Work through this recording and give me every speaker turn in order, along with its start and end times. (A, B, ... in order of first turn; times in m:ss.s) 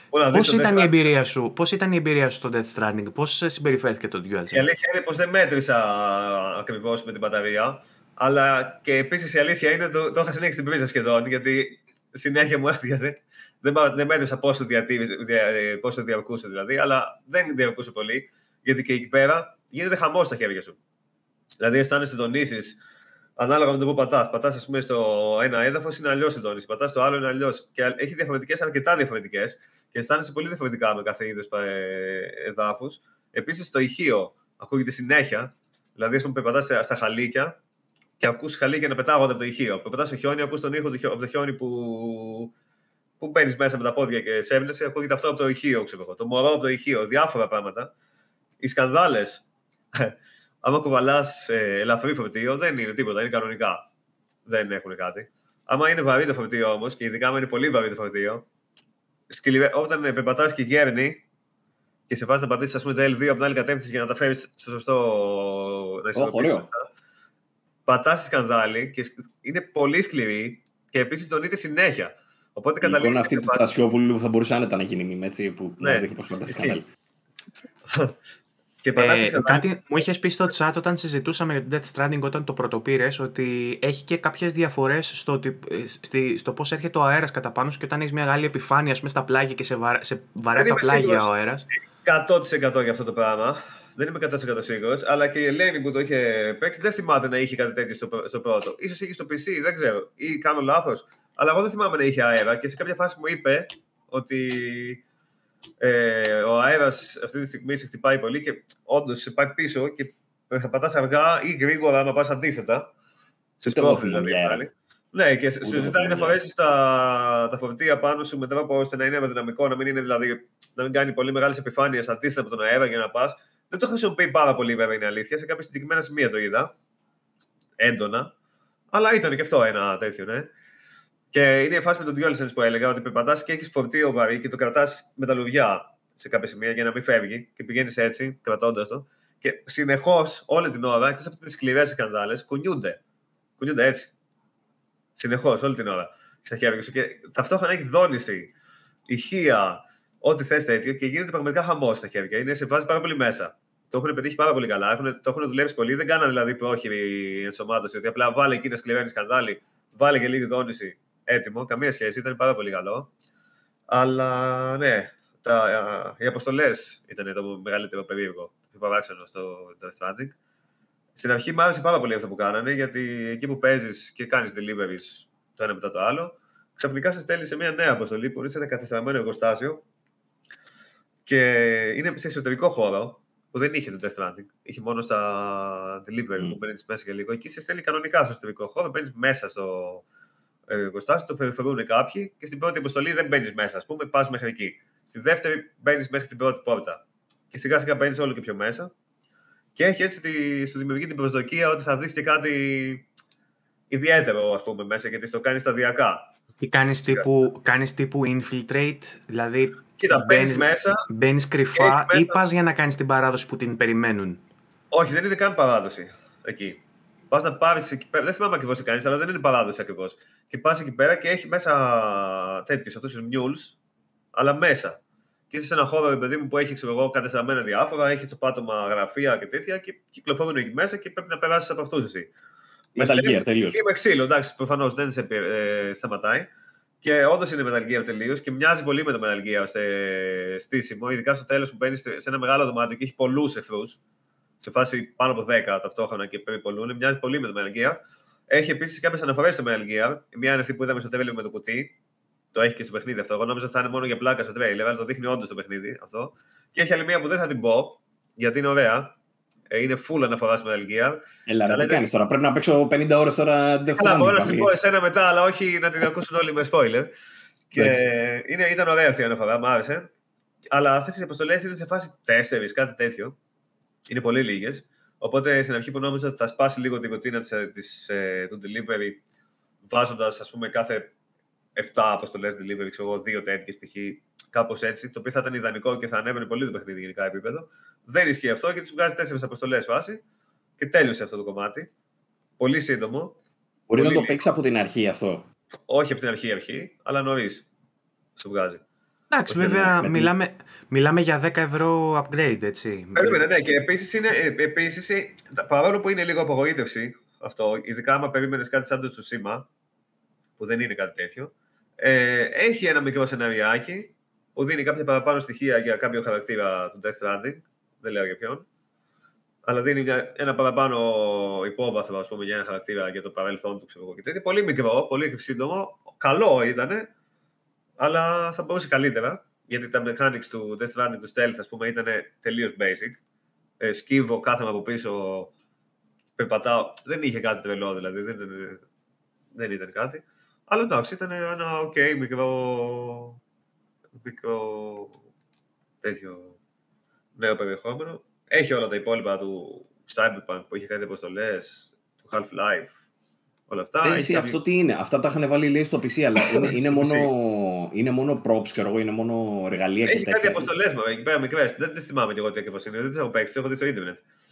0:00.1-0:00.9 A
0:00.3-0:04.7 B
0:04.5-0:20.8 A
0:21.6-0:22.8 A
0:23.4-0:37.6 A
0:38.2-0:42.5 A
0:43.2-0:47.9 A
0:48.6-0:53.9 A
0:54.5-0:58.4 A
0:59.3-1:01.2 A
1:02.1-1:06.9 A
1:06.2-1:06.7 C
1:07.9-1:13.7 A
1:12.8-1:16.9 C
1:15.8-1:16.8 A
1:17.9-1:18.2 A
1:18.8-1:19.7 A
1:19.0-1:31.7 B
1:30.6-1:31.3 A
1:32.0-1:45.0 A
1:45.8-1:52.9 A
1:53.6-2:06.7 A
1:53.6-1:54.6 C
1:55.6-1:56.4 C
2:07.8-2:08.3 A
2:08.9-2:10.5 A
2:11.3-2:23.0 A
2:23.6-2:24.1 A
2:25.2-2:28.5 A
2:29.1-2:43.1 A
2:43.9-2:50.4 A
2:51.2-2:59.8 A
3:01.3-3:10.0 A
3:10.7-3:17.0 A
3:17.5-3:18.9 A
3:19.8-3:23.1 A
3:23.9-3:26.3 A
3:26.6-3:34.4 B
3:30.0-3:31.1 A
3:31.8-3:32.4 A
3:34.9-3:43.8 A
3:44.3-3:45.0 A
3:45.5-3:52.3 A
3:53.0-3:56.5 A
3:53.0-3:53.8 C
3:57.0-4:04.0 A
4:04.6-4:11.9 A
4:12.5-4:19.1 A
4:19.7-4:22.1 A
4:21.5-4:24.7 C
4:24.0-4:27.1 A
4:27.7-4:30.1 A
4:27.8-4:28.1 C
4:30.7-4:33.4 A
4:34.1-4:39.2 A
4:39.9-4:41.1 A
4:41.8-4:50.2 A
4:50.8-4:51.9 A
4:52.6-4:53.4 A
4:53.9-4:55.5 C
4:54.0-4:54.4 A
4:55.9-4:57.6 A
4:58.4-4:58.8 A
4:59.3-5:03.5 B
4:59.5-5:00.3 C
5:03.2-5:09.7 A
5:10.6-5:18.7 A
5:19.7-5:27.1 A
5:28.0-5:33.2 A
5:33.8-5:35.5 A
5:36.4-5:38.8 A
5:39.6-5:43.4 A
5:44.2-5:45.2 A
5:46.0-5:46.6 A
5:47.4-5:52.9 A
5:53.7-5:54.6 A
5:54.0-6:00.7 C
5:56.5-5:57.3 A
6:00.1-6:04.2 A